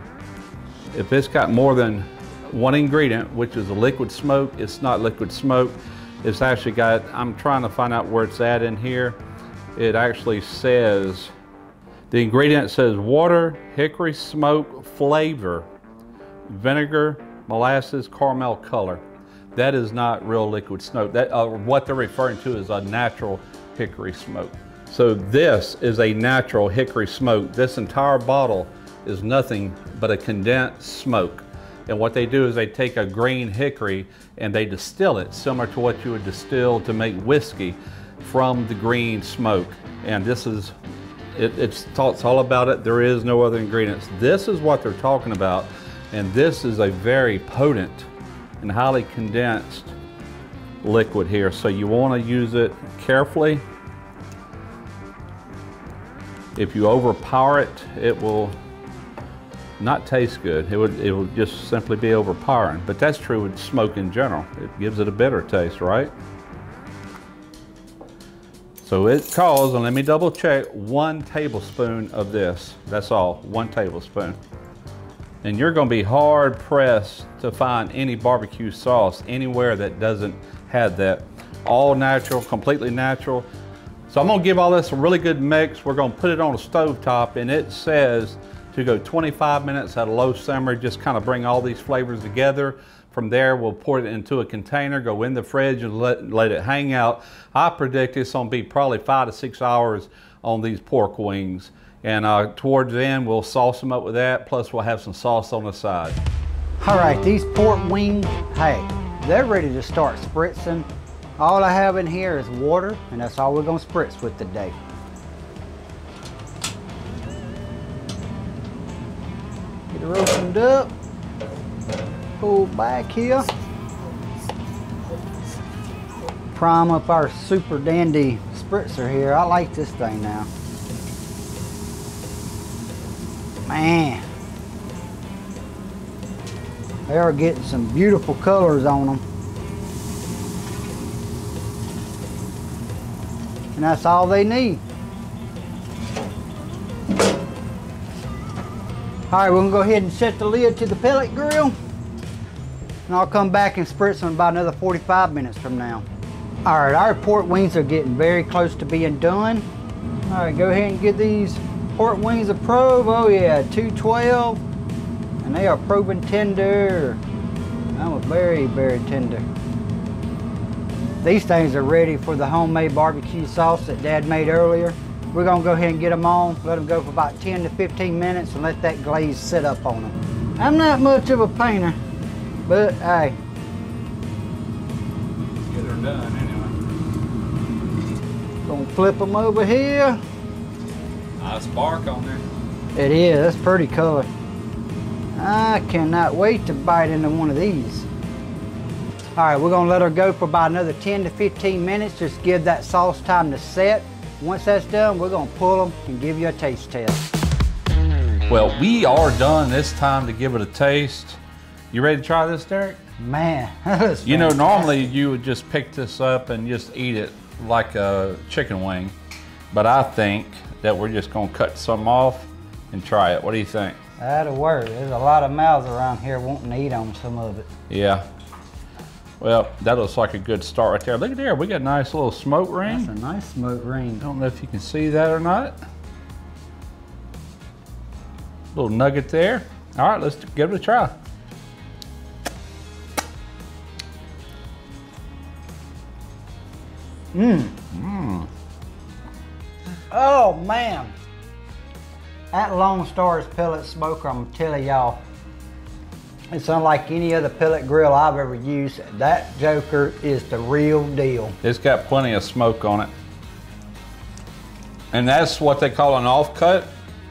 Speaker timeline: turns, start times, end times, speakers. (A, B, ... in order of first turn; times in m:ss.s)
0:00.9-0:09.2 A
0:09.8-0:11.3 A
0:12.1-0:15.7 A
0:16.5-0:19.0 A
0:19.5-0:40.7 A
0:41.3-0:48.1 A
0:48.6-0:49.9 A
0:50.8-0:53.6 A
0:56.6-0:58.6 A
0:59.8-1:06.1 A
1:08.8-1:14.4 A
1:15.4-1:23.5 A
1:24.1-1:46.2 A
1:46.8-1:54.8 B
1:59.9-2:00.9 B
2:02.4-2:03.5 B
2:06.5-2:10.5 B
2:13.6-2:14.2 B
2:17.1-2:19.2 B
2:23.7-2:24.8 B
2:29.3-2:31.7 B
2:33.1-2:36.0 B
2:36.6-2:39.6 B
2:40.2-2:44.6 B
2:45.4-2:47.2 B
2:47.9-2:49.4 B
2:51.2-3:02.0 B
3:02.6-3:03.4 B
3:05.6-3:06.8 A
3:08.6-3:10.2 B
3:11.4-3:12.4 A
3:13.0-3:14.3 B
3:15.4-3:18.1 B
3:19.4-3:27.3 B
3:28.5-3:31.4 A
3:31.9-3:33.0 A
3:33.2-3:35.0 B
3:34.2-3:39.1 A
3:39.7-3:44.0 A
3:44.2-3:47.7 B
3:47.9-3:48.2 A
3:49.4-3:53.1 A
3:52.8-3:54.2 B
3:54.2-3:55.7 A
3:58.7-4:01.1 A
4:07.3-4:07.8 B
4:07.9-4:08.5 A
4:10.1-4:11.1 B
4:12.5-4:15.2 B
4:16.5-4:21.6 B
4:21.6-4:23.1 A
4:25.1-4:26.9 A